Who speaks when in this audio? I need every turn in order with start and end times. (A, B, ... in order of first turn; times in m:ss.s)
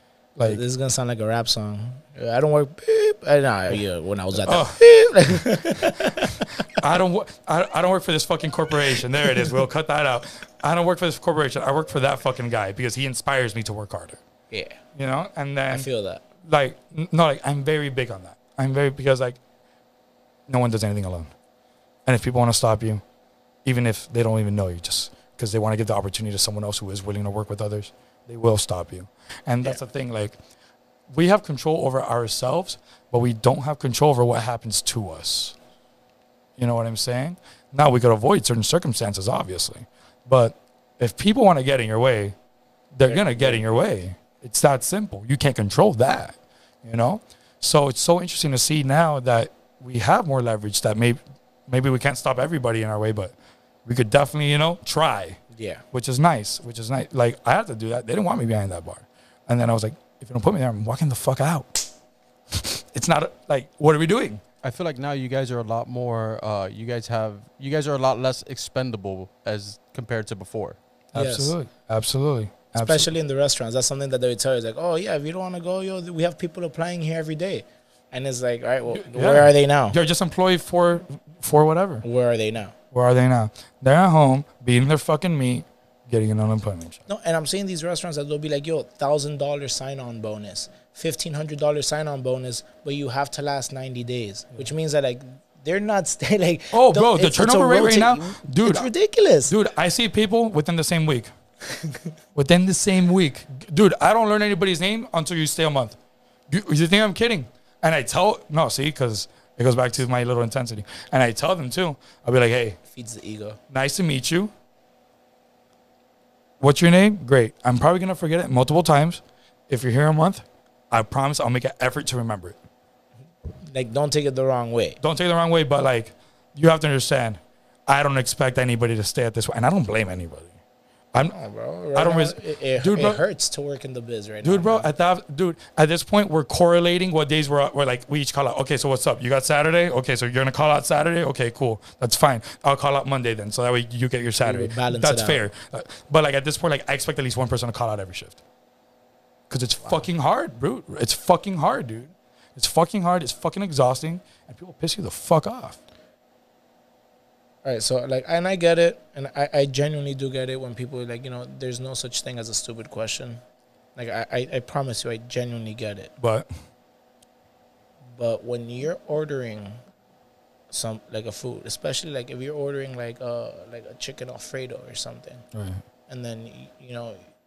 0:00.4-0:00.6 A
0:00.4-0:06.5 B
0:04.4-0:04.8 A
0:05.8-0:14.2 A
0:14.5-0:14.8 B
0:14.9-0:15.9 A
0:15.7-0:16.2 B
0:16.4-0:19.4 A
0:20.5-0:21.3 A
0:22.0-0:23.0 A
0:23.6-0:30.4 A
0:31.1-0:35.6 A
0:36.6-0:42.3 A
0:42.9-0:53.3 A
0:43.1-0:43.6 B
0:53.8-0:55.4 A
0:55.5-0:55.8 B
0:55.9-1:01.9 A
1:02.5-1:04.4 A
1:04.6-1:10.8 C
1:11.1-1:13.1 A
1:11.1-1:11.5 B
1:12.7-1:20.0 B
1:18.9-1:22.0 A
1:22.0-1:22.7 B
1:22.9-1:27.0 A
1:27.1-1:39.5 B
1:36.7-1:38.9 A
1:39.4-1:41.3 A
1:42.3-1:46.0 A
1:46.5-1:52.8 A
1:52.9-1:53.6 B
1:53.7-1:54.5 A
1:56.6-2:02.6 A
2:03.6-2:05.0 B
2:05.0-2:10.5 A
2:11.2-2:14.9 B
2:11.9-2:13.2 A
2:14.4-2:28.4 A
2:24.4-2:25.4 B
2:29.5-2:35.8 A
2:37.6-2:43.4 B
2:44.0-2:46.1 B
2:46.2-2:46.5 A
2:48.1-2:49.8 B
2:50.7-2:55.4 B
2:55.5-2:55.8 A
2:56.1-2:57.2 B